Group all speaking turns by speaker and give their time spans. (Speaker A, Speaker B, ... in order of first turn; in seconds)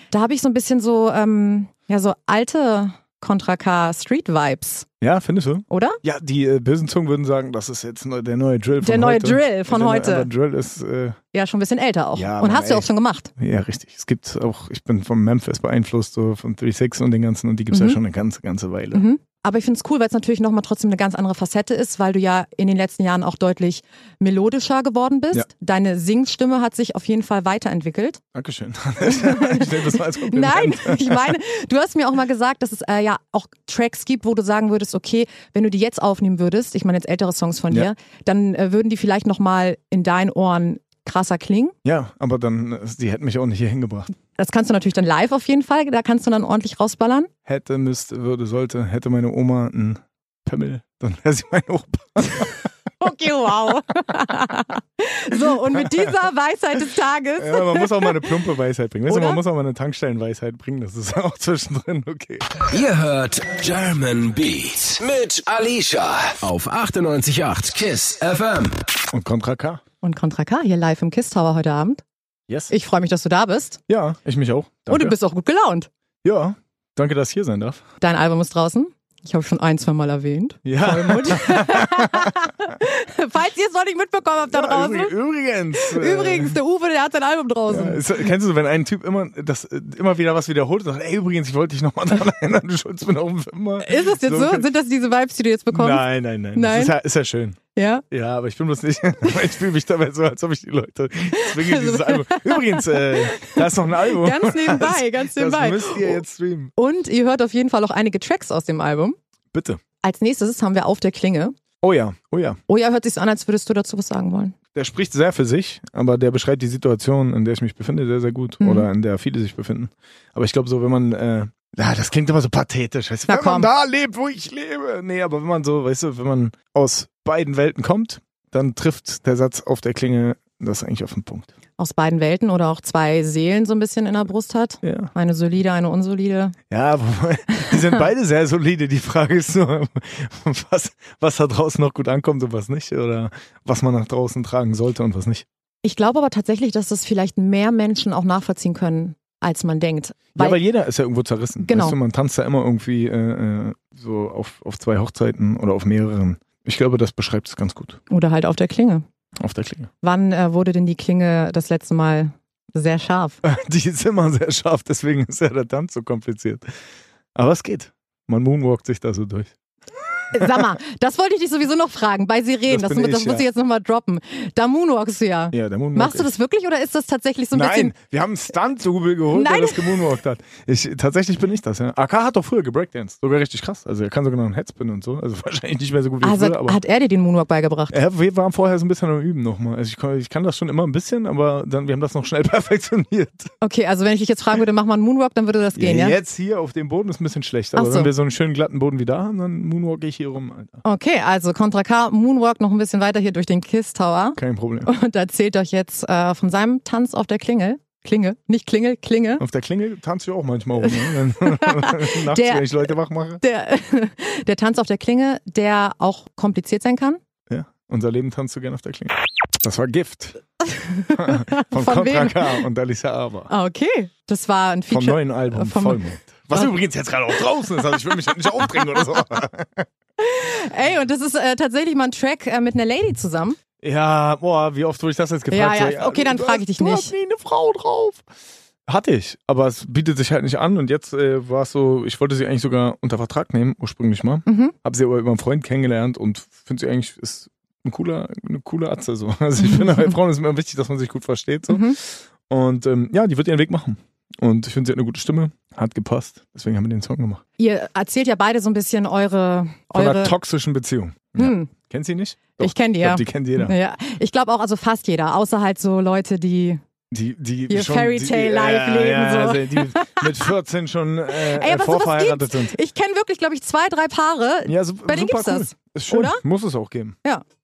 Speaker A: 0.1-4.9, 5.7-6.0, 8.8-10.3, 11.3-13.3, 17.7-18.0, 18.9-28.2, 29.0-41.7, 44.4-47.3, 53.0-58.3, 59.1-59.4, 70.0-72.0, 72.7-73.8, 74.9-75.9, 78.0-85.1, 85.8-88.2, 93.8-97.0, 97.7-98.0, 101.4-106.2, 106.8-109.2, 110.0-111.5, 112.7-114.5, 118.6-118.9, 123.3-123.7, 131.8-136.6, 145.8-150.6, 151.6-152.0, 158.1-159.0, 160.0-163.4, 170.3-177.9, 179.3-180.0, 186.2-188.0, 193.6-196.2, 197.8-198.1, 200.8-209.4, 210.9-212.9, 213.4-217.2, 220.7-222.6, 223.5-226.7, 230.2-233.6, 235.5-237.1, 244.4-244.7, 251.7-252.0, 257.6-260.3, 261.4-261.7, 262.6-266.8, 267.7-270.5, 271.3-276.4
Speaker B: 5.0-11.2, 12.1-19.0, 28.3-31.3, 41.8-44.1, 47.5-52.6, 55.7-56.1, 57.4-62.5, 69.1-69.8, 73.9-75.2, 76.2-77.8, 80.6-82.3, 84.5-86.6, 87.7-94.7, 95.7-97.6, 98.1-106.7, 109.5-109.8, 111.8-112.6, 114.7-131.5, 134.8-135.1, 136.7-145.4, 150.4-158.0, 159.4-159.9, 163.4-166.7, 167.3-169.5, 172.7-173.4, 175.5-176.3, 177.5-186.8, 187.9-193.5, 195.8-200.8, 204.4-204.9, 209.4-213.4, 217.5-220.4, 221.1-223.5, 224.9-229.9, 233.8-238.2, 238.9-257.4, 259.9-263.7, 267.1-272.7, 274.7-277.2
Speaker C: 62.6-68.8